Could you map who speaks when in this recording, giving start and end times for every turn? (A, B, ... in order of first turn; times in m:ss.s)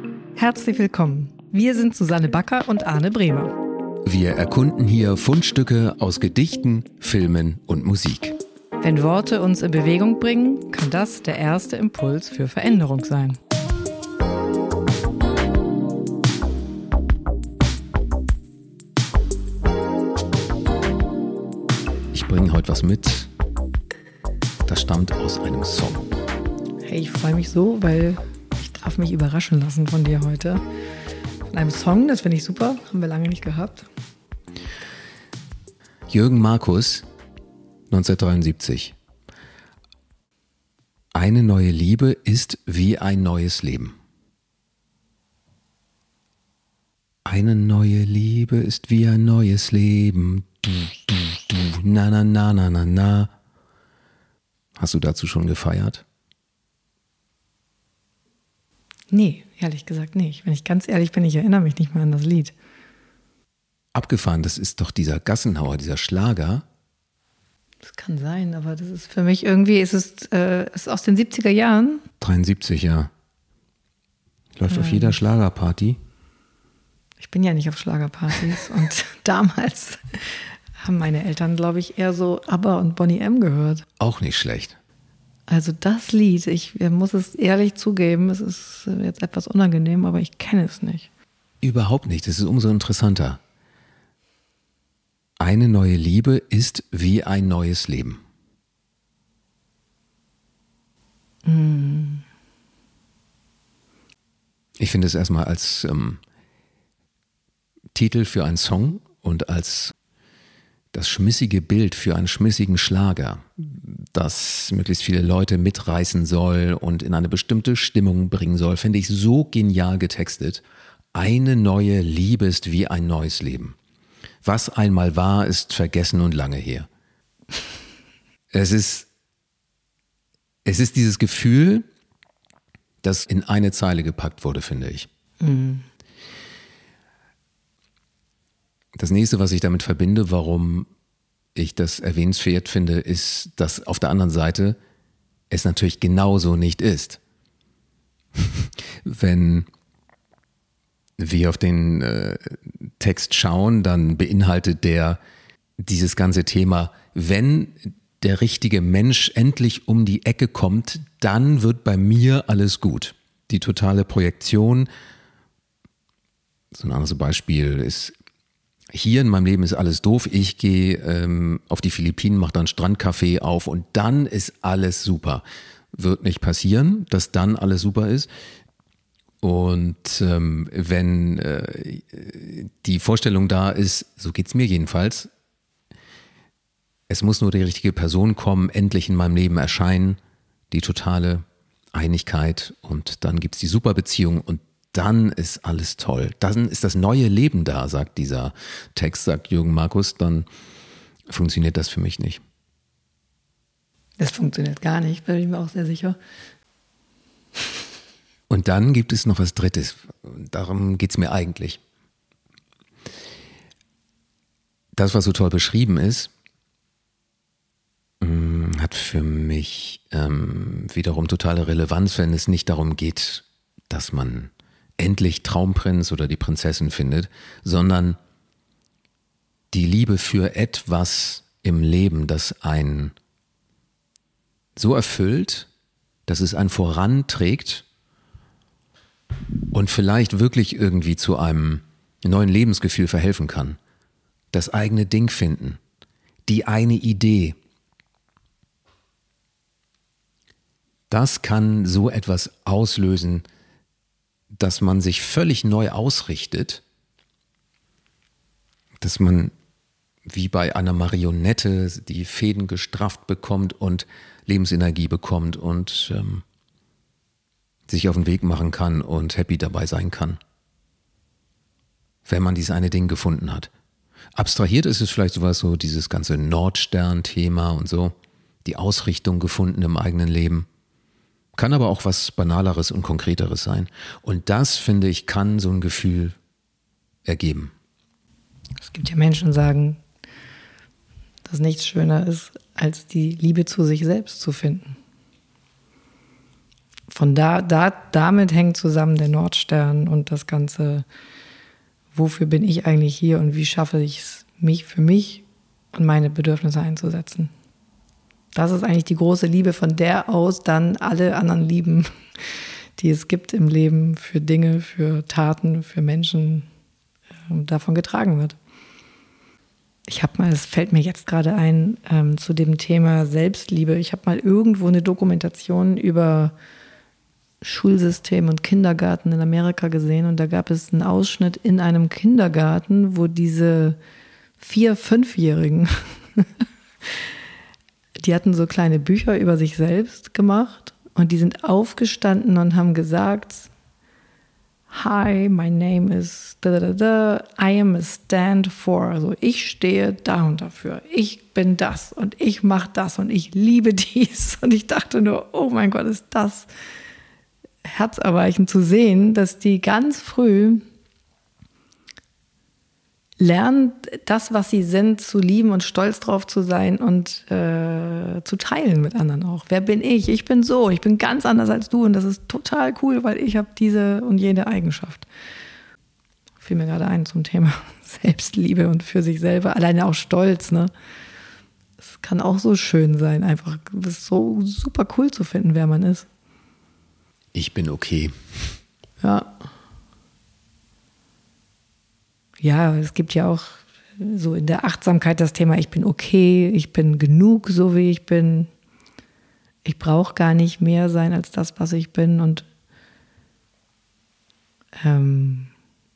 0:00.4-0:03.6 A
0:04.0-0:08.4 B
0:08.8-0:13.4 A
0:22.1-0:23.3 B
0:24.7-0:26.1 B
0:26.8-0:30.6 A
0:31.5-0:33.9 A
0:36.1-0:37.0 B
0:37.9-0:38.9 B
0:41.1-0:43.9 B
0:47.2-0:53.3 B
0:54.8-0:56.0 B
0:59.1-1:02.5 A
1:03.9-1:06.6 B
1:07.8-1:12.0 A
1:12.2-1:13.1 B
1:14.6-1:16.0 B
1:14.7-1:15.2 A
1:17.2-1:23.8 A
1:24.0-1:24.8 B
1:25.5-1:31.1 A
1:31.6-1:33.4 B
1:35.4-1:38.2 B
1:41.4-1:42.2 A
1:44.8-1:46.2 B
1:47.9-1:49.9 B
1:50.9-2:00.6 B
2:01.1-2:03.7 B
2:04.4-2:06.9 B
2:08.5-2:09.1 B
2:10.6-2:11.8 B
2:13.0-2:15.1 B
2:15.4-2:15.8 A
2:19.0-2:20.9 B
2:21.5-2:24.8 B
2:25.5-2:27.2 B
2:28.4-2:29.7 B
2:31.2-2:35.2 B
2:35.8-2:44.9 B
2:46.7-2:48.1 B
2:48.9-2:58.3 B
2:59.4-3:05.3 B
3:07.1-3:10.2 B
3:10.7-3:20.5 B
3:21.3-3:22.4 B
3:24.2-3:26.2 A
3:28.5-3:31.8 B
3:34.9-3:36.3 B
3:38.2-3:48.2 B
3:49.7-3:53.1 B
3:54.8-3:55.7 B
3:56.3-3:57.8 B
3:59.7-4:03.8 B
4:04.5-4:05.8 B
4:06.5-4:07.6 B
4:11.1-4:13.4 B
4:14.6-4:16.8 B
4:19.0-4:19.5 B
4:20.3-4:26.4 B
4:27.9-4:30.4 B
4:32.2-4:33.7 B
4:34.4-4:40.7 B
4:41.6-4:46.4 B
4:47.2-4:47.7 B
4:48.8-4:50.0 A
4:51.5-4:54.9 A
4:57.1-5:01.0 A
5:02.1-5:07.5 A
5:08.5-5:12.1 A
5:13.0-5:16.6 A
5:17.5-5:18.6 A
5:20.1-5:26.5 A
5:27.6-5:34.0 A
5:34.6-5:36.4 A
5:38.2-5:43.7 A
5:44.9-5:56.7 A
5:57.8-6:00.8 A
6:03.4-6:15.3 A
6:16.6-6:20.9 A
6:22.0-6:26.3 A
6:27.5-6:28.8 B
6:29.2-6:29.5 A
6:32.6-6:38.7 A
6:39.8-6:42.6 A
6:45.0-6:45.7 A